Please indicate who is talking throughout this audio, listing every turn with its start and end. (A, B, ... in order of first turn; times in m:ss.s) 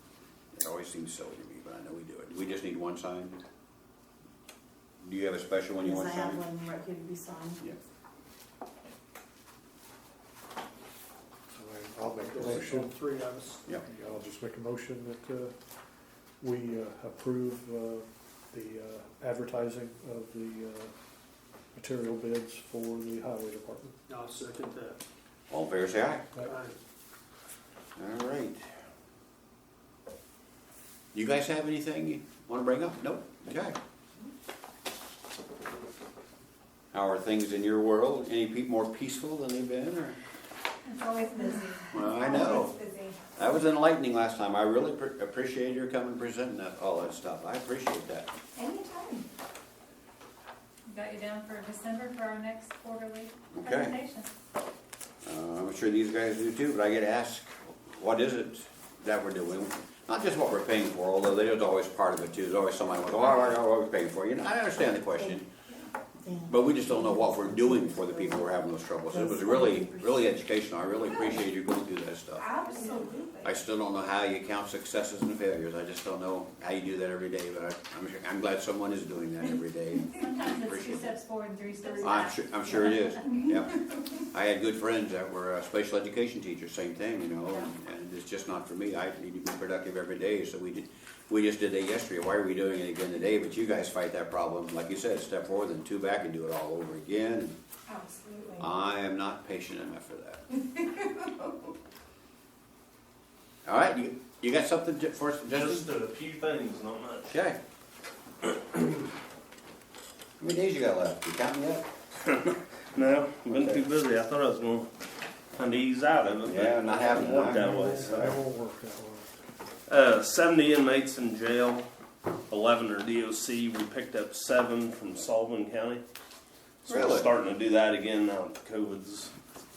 0:00.5-0:03.4 A
0:05.0-0:06.4 A
0:05.8-0:07.8 B
0:11.6-0:13.0 C
0:12.0-0:13.6 D
0:13.8-0:15.5 C
0:16.4-0:20.9 C
0:21.7-0:24.0 C
0:24.1-0:25.0 D
0:25.5-0:26.3 A
0:26.4-0:26.8 D
0:28.0-0:28.6 A
0:31.1-0:33.8 A
0:36.9-0:40.2 A
0:40.9-0:43.1 E
0:41.9-0:42.8 A
0:42.2-0:43.1 F
0:43.4-0:48.3 A
0:48.6-0:49.2 F
0:50.9-0:54.3 E
0:53.5-0:54.0 A
0:55.2-1:05.5 A
1:06.2-1:08.5 B
1:06.5-1:12.6 A
1:09.1-1:10.4 B
1:12.4-1:13.6 F
1:12.7-1:13.2 E
1:13.4-1:21.2 A
1:20.1-1:23.6 E
1:22.0-1:37.6 A
1:37.9-1:38.6 F
1:38.6-1:40.4 A
1:43.7-1:45.9 A
1:45.5-1:47.4 G
1:47.3-1:47.6 A
1:48.5-1:49.0 G
1:50.4-1:51.9 A
1:52.2-1:54.9 G
1:53.5-1:53.9 A
1:55.5-1:58.4 G
1:56.4-1:58.3 A
1:57.3-1:59.3 C
1:59.9-2:01.8 G
2:02.5-2:06.0 G
2:06.8-2:09.3 G
2:06.9-2:07.3 A